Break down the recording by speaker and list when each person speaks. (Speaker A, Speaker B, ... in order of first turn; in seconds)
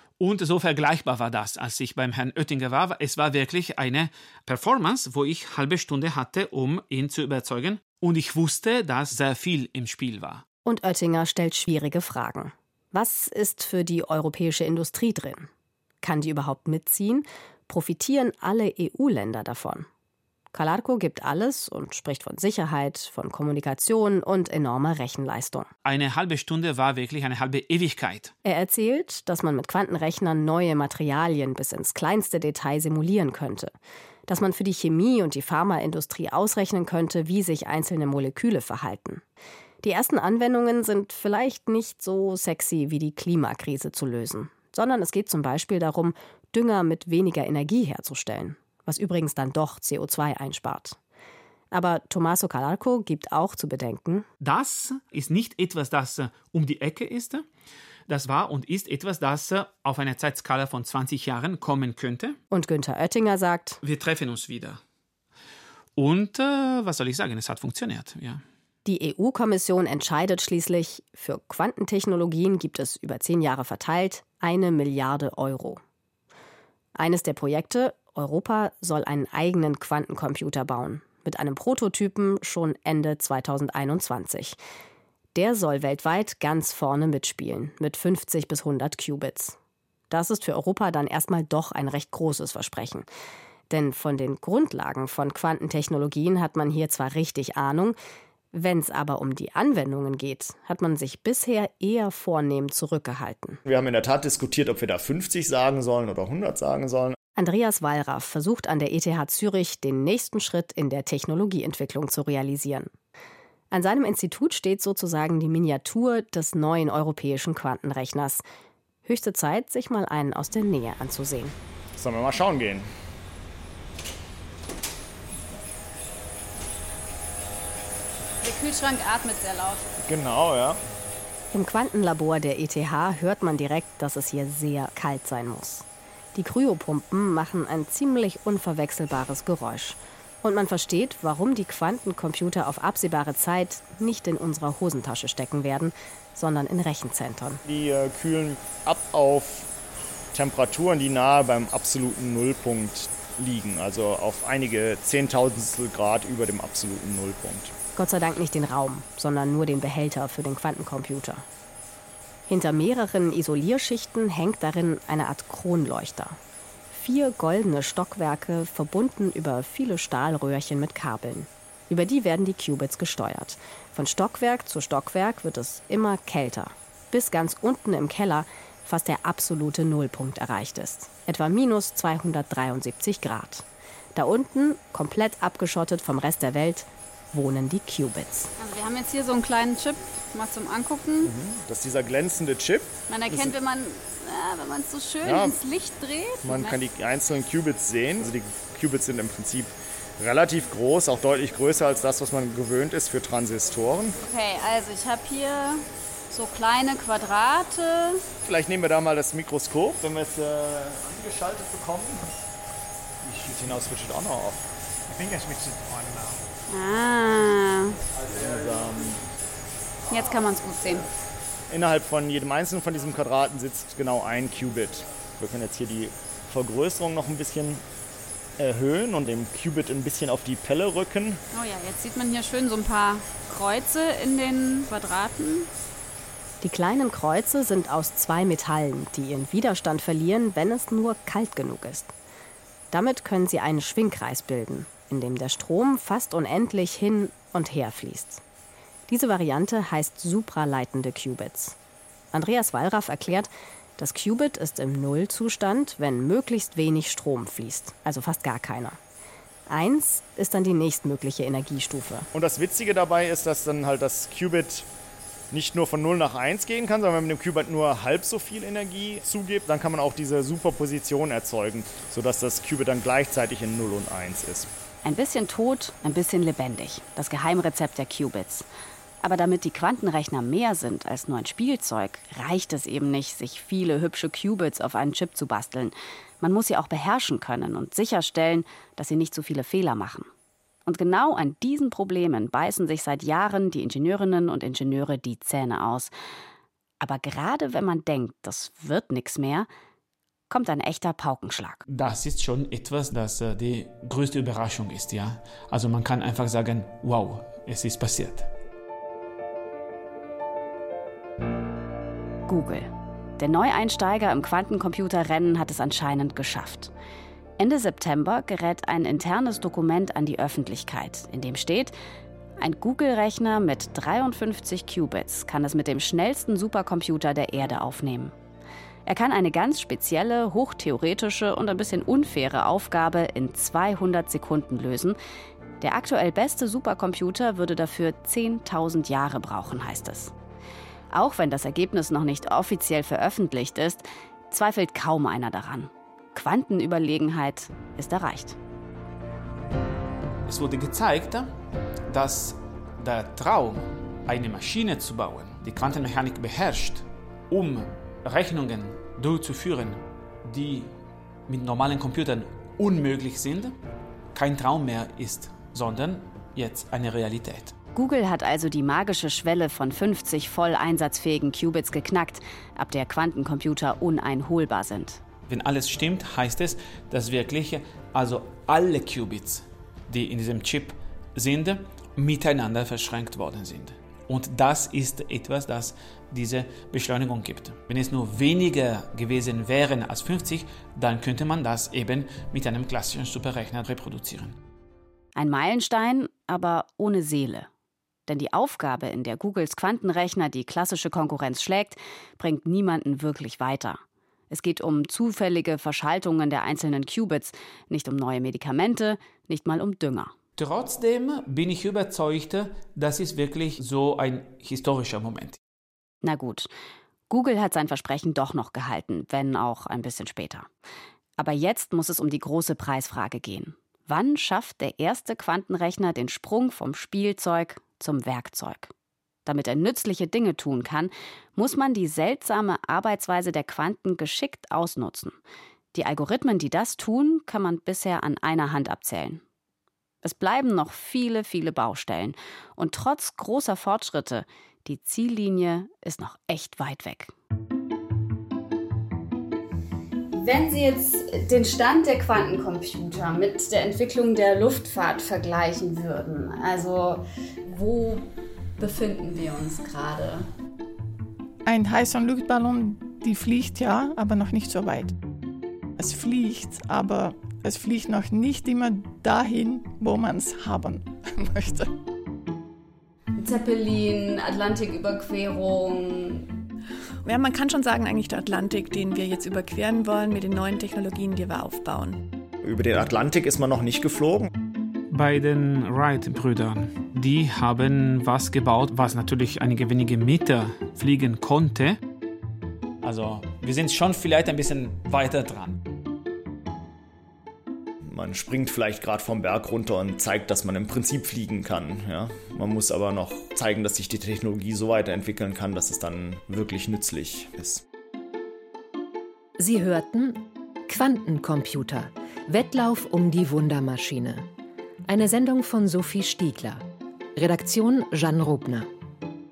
Speaker A: 0.2-10.4, 25.8-28.3, 54.4-57.4, 58.1-62.4, 63.8-64.8, 66.0-68.4, 215.2-216.3, 301.9-308.5, 350.5-351.5, 352.1-360.9, 361.5-363.7, 364.3-367.8, 375.5-394.6, 410.6-415.6, 485.1-492.0, 493.0-495.8
Speaker B: 10.6-15.5, 16.0-19.9, 20.5-25.7, 28.4-33.7, 34.3-39.2, 39.8-51.0, 51.7-54.3, 62.5-63.8, 68.8-75.8, 76.9-84.6, 85.3-89.6, 90.1-93.1, 93.7-98.0, 98.5-103.6, 107.3-112.9, 113.7-118.4, 119.0-121.5, 131.5-147.6, 157.9-161.4, 162.5-166.4, 166.9-188.5, 236.6-242.1, 242.9-248.4, 249.1-251.8, 252.3-259.0, 259.7-262.3
Speaker C: 103.7-107.1, 122.0-122.9, 130.0-130.8, 147.7-149.7, 150.3-157.7, 191.2-193.5, 195.2-195.6, 196.4-204.1, 208.4-212.3, 213.2-214.6, 218.3-219.2, 221.7-227.8, 228.6-231.4, 262.3-264.9, 265.5-274.7, 482.6-484.5, 498.1-507.8
Speaker D: 128.4-129.9, 188.6-191.3, 193.1-196.8, 204.2-208.2, 216.7-218.0, 220.1-221.1, 231.5-235.7, 450.3-460.5, 473.4-476.5
Speaker E: 275.0-278.7, 279.2-290.3, 290.9-296.1, 297.0-299.7, 300.5-301.8, 312.5-316.9, 317.6-321.9, 322.6-328.3, 329.1-335.2, 335.8-340.3, 341.1-348.6, 367.9-375.2, 395.4-397.7, 398.3-410.3, 416.2-416.7, 417.3-420.7, 421.4-428.9, 429.4-435.4, 435.9-439.4, 440.2-447.3
Speaker F: 461.6-465.1, 466.0-471.9
Speaker G: 477.2-482.3
Speaker H: 509.6-514.5, 515.0-516.8, 517.3-518.9